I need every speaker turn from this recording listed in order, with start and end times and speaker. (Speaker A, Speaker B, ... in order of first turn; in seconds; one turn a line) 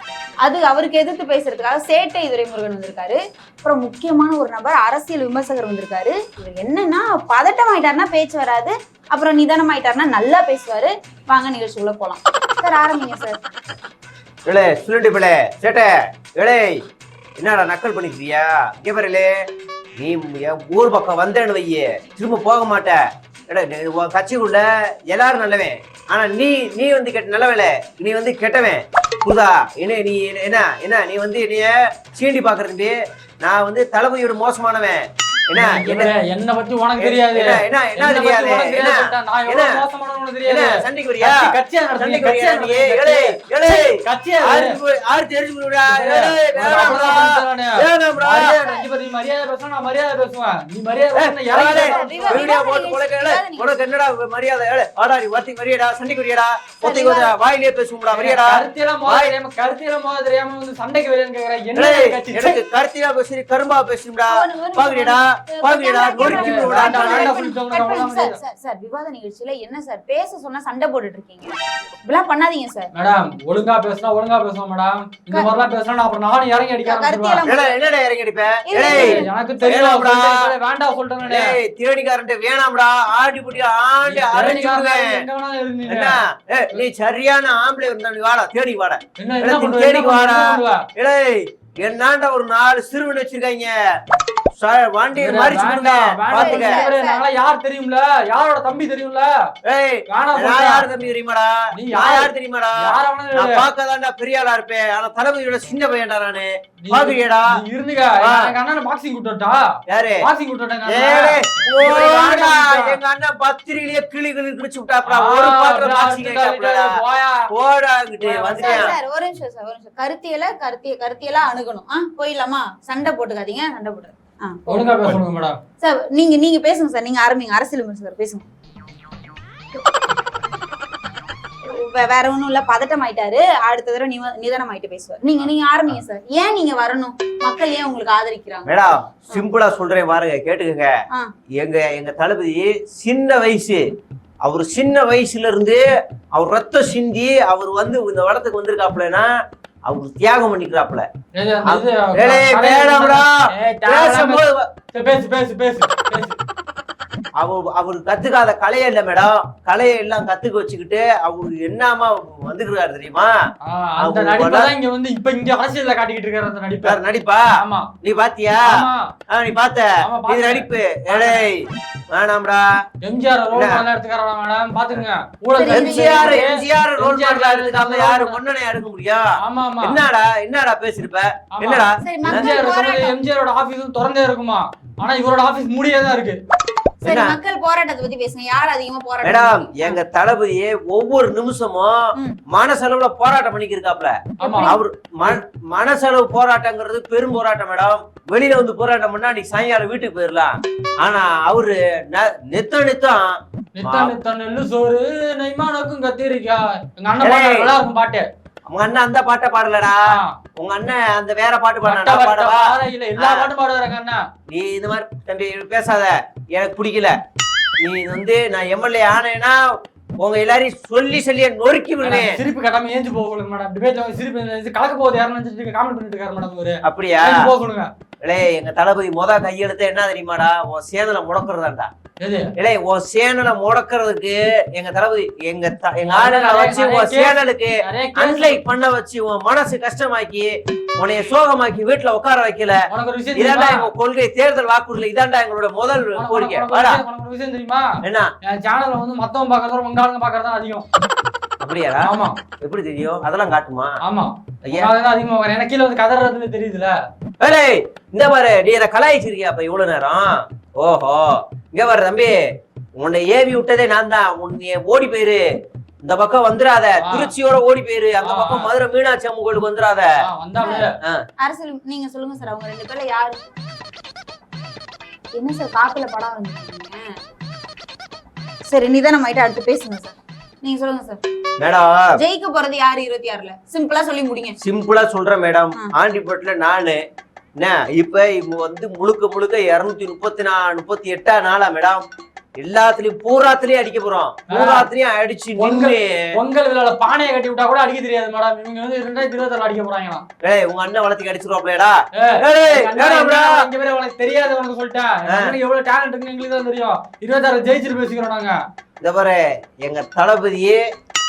Speaker A: 0.4-13.4
Speaker B: 14.4-16.8
Speaker B: 17.4-19.3
Speaker B: 20.0-36.1
Speaker C: 35.5-44.7
Speaker B: 37.0-39.8
Speaker B: 40.4-48.6
Speaker C: 45.8-52.5
Speaker A: 46.6-47.2
Speaker B: 51.1-59.3
Speaker A: 51.5-53.8
Speaker A: 56.8-57.3
Speaker C: 58.1-62.6
Speaker B: 61.7-67.3
Speaker A: 64.3-72.9
Speaker C: 66.2-68.4
Speaker C: 72.9-77.4
Speaker A: 76.8-77.8
Speaker B: 77.4-80.4
Speaker A: 78.7-79.3
Speaker C: 78.8-81.5
Speaker B: 81.2-85.2
Speaker C: 84.0-86.2
Speaker B: 85.9-93.7
Speaker C: 89.2-90.9
Speaker B: 94.5-96.9
Speaker C: 95.1-99.3
Speaker A: 96.3-97.2
Speaker B: 99.6-107.5
Speaker C: 100.1-100.9
Speaker C: 101.7-103.7
Speaker C: 106.8-113.0
Speaker B: 108.2-108.5
Speaker B: 109.9-110.3
Speaker B: 110.8-116.9
Speaker C: 115.0-117.5
Speaker B: 117.5-118.9
Speaker C: 118.2-118.9
Speaker A: 118.6-124.9
Speaker C: 124.7-125.6
Speaker A: 125.8-128.4
Speaker A: 131.6-139.4
Speaker B: 138.6-140.9
Speaker B: 141.6-143.8
Speaker B: 144.4-145.8
Speaker B: 146.3-149.3
Speaker B: 149.9-151.1
Speaker C: 151.3-156.4
Speaker B: 151.7-153.3
Speaker B: 153.8-154.7
Speaker B: 157.4-163.3
Speaker C: 163.6-167.0
Speaker B: 164.0-164.7
Speaker B: 166.8-167.5
Speaker C: 167.6-167.9
Speaker B: 168.0-172.6
Speaker C: 168.6-169.1
Speaker C: 170.0-171.5
Speaker C: 173.0-178.4
Speaker B: 173.5-173.8
Speaker A: 175.5-176.4
Speaker B: 175.7-182.6
Speaker C: 179.4-180.0
Speaker C: 181.5-186.4
Speaker A: 182.0-183.2
Speaker A: 187.0-190.0
Speaker B: 187.0-187.4
Speaker B: 189.2-204.1
Speaker A: 194.4-194.8
Speaker C: 194.4-194.8
Speaker C: 203.8-208.2
Speaker B: 207.2-207.8
Speaker B: 208.7-210.0
Speaker C: 210.1-210.4
Speaker B: 210.6-213.5
Speaker C: 211.8-214.2
Speaker B: 214.5-217.2
Speaker B: 217.8-219.6
Speaker B: 220.2-222.4
Speaker C: 222.0-227.9
Speaker B: 226.8-227.5
Speaker B: 228.2-231.9
Speaker C: 232.2-232.5
Speaker B: 232.6-242.8
Speaker C: 236.0-238.6
Speaker C: 242.9-243.9
Speaker B: 243.3-247.0
Speaker C: 246.2-250.8
Speaker B: 248.0-248.3
Speaker B: 251.6-253.9
Speaker C: 252.0-252.4
Speaker C: 254.0-256.9
Speaker B: 254.6-254.9
Speaker B: 257.4-262.4
Speaker B: 263.0-265.4
Speaker B: 266.0-270.1
Speaker C: 267.0-267.3
Speaker C: 268.2-268.7
Speaker C: 270.2-271.0
Speaker A: 270.6-270.9
Speaker A: 271.4-273.6
Speaker A: 275.3-277.1
Speaker A: 278.7-281.2
Speaker B: 281.6-282.1
Speaker A: 282.2-284.6
Speaker B: 284.6-287.0
Speaker B: 287.6-292.1
Speaker B: 292.6-296.1
Speaker C: 294.5-294.9
Speaker C: 295.6-300.2
Speaker B: 300.4-303.5
Speaker C: 302.1-308.6
Speaker B: 305.3-305.5
Speaker B: 309.0-310.8